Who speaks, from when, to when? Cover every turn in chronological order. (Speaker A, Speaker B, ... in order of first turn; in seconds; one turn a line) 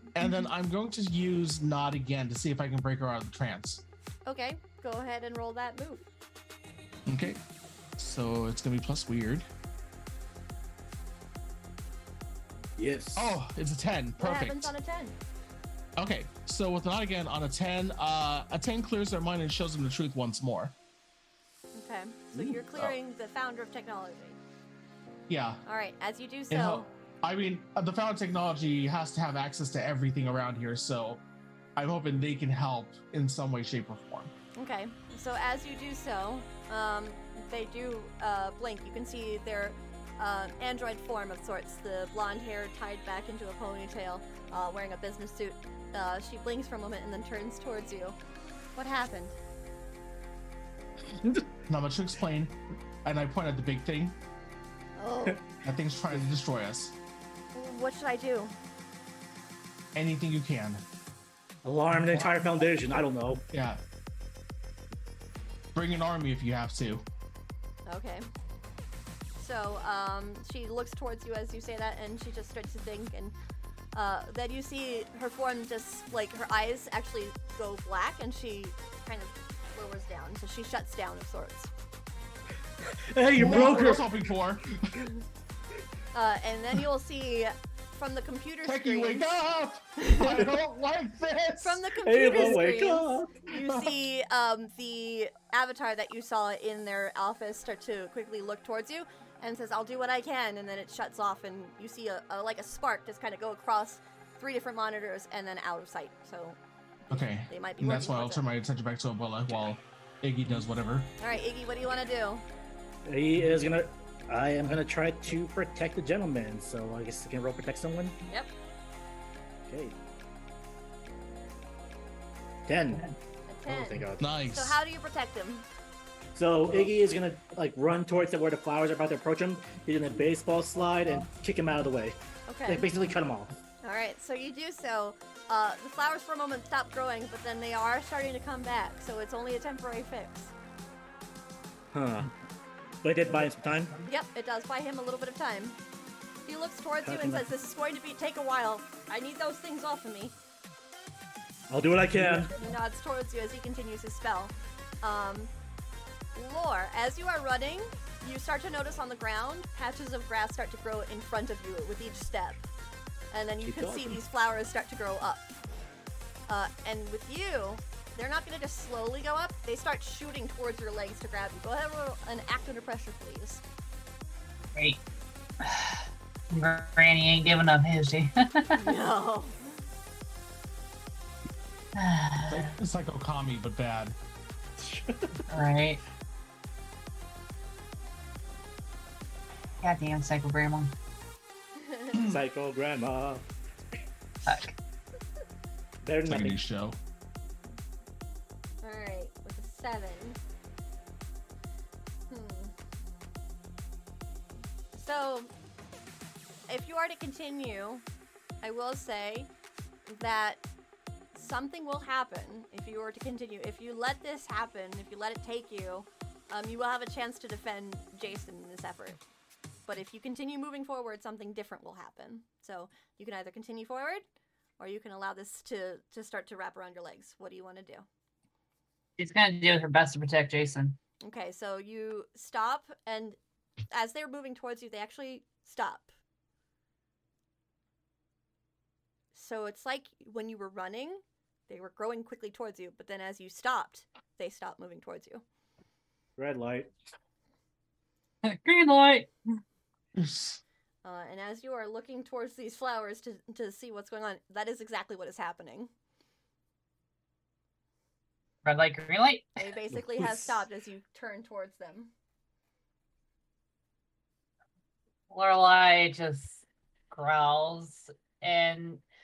Speaker A: 0.1-3.8
Speaker B: 4.3-6.1
Speaker A: 7.1-7.4
Speaker A: 8.0-9.5
Speaker C: 12.8-13.4
Speaker A: 13.2-14.7
Speaker B: 14.2-15.2
Speaker A: 16.0-20.7
Speaker B: 21.8-24.4
Speaker C: 22.3-22.9
Speaker A: 25.3-25.6
Speaker B: 25.7-26.9
Speaker A: 26.5-31.2
Speaker A: 31.8-34.3
Speaker B: 34.6-48.2
Speaker B: 48.8-49.4
Speaker C: 51.1-51.5
Speaker A: 51.7-54.2
Speaker B: 55.0-55.4
Speaker A: 55.6-57.0
Speaker B: 57.5-58.6
Speaker A: 60.0-60.8
Speaker C: 61.6-63.4
Speaker A: 63.5-63.8
Speaker A: 65.8-67.0
Speaker B: 67.9-68.3
Speaker B: 69.4-73.3
Speaker B: 73.9-81.7
Speaker C: 82.8-84.1
Speaker A: 83.3-85.0
Speaker B: 83.5-83.9
Speaker B: 86.1-89.3
Speaker A: 88.7-91.8
Speaker B: 90.0-90.5
Speaker B: 91.6-106.6
Speaker C: 92.0-93.4
Speaker A: 93.7-93.9
Speaker B: 107.1-108.4
Speaker A: 107.1-111.1
Speaker B: 111.2-112.4
Speaker C: 113.1-118.2
Speaker C: 119.7-120.0
Speaker C: 122.7-123.1
Speaker B: 123.5-125.7
Speaker C: 123.7-124.3
Speaker A: 124.2-124.8
Speaker C: 126.3-133.5
Speaker B: 132.5-132.9
Speaker B: 133.8-140.5
Speaker C: 141.9-142.3
Speaker C: 143.0-144.0
Speaker B: 144.1-145.8
Speaker B: 146.5-150.3
Speaker C: 147.0-147.5
Speaker C: 151.7-152.6
Speaker B: 152.5-155.5
Speaker B: 156.3-162.7
Speaker B: 163.3-165.5
Speaker C: 163.6-164.2
Speaker B: 166.5-173.6
Speaker D: 174.8-175.0
Speaker D: 175.6-179.0
Speaker B: 178.7-179.6
Speaker D: 181.9-182.8
Speaker A: 182.5-184.2
Speaker C: 184.8-185.4
Speaker D: 185.5-186.0
Speaker D: 189.8-190.9
Speaker B: 191.8-192.2
Speaker A: 192.1-192.4
Speaker C: 192.2-194.0
Speaker D: 194.5-194.8
Speaker C: 196.0-196.6
Speaker A: 196.3-197.0
Speaker B: 198.8-200.4
Speaker B: 202.3-202.7
Speaker B: 205.0-205.5
Speaker B: 206.7-208.0
Speaker B: 208.6-209.5
Speaker B: 210.1-210.6
Speaker B: 211.3-219.2
Speaker B: 219.9-224.2
Speaker B: 224.8-228.1
Speaker D: 229.2-231.0
Speaker B: 231.2-233.4
Speaker B: 233.9-236.1
Speaker B: 239.3-245.4
Speaker C: 246.4-246.9
Speaker D: 248.4-249.3
Speaker A: 250.2-250.6
Speaker B: 251.0-255.9
Speaker D: 258.6-259.6
Speaker B: 259.6-262.1
Speaker A: 259.9-260.6
Speaker D: 265.3-269.0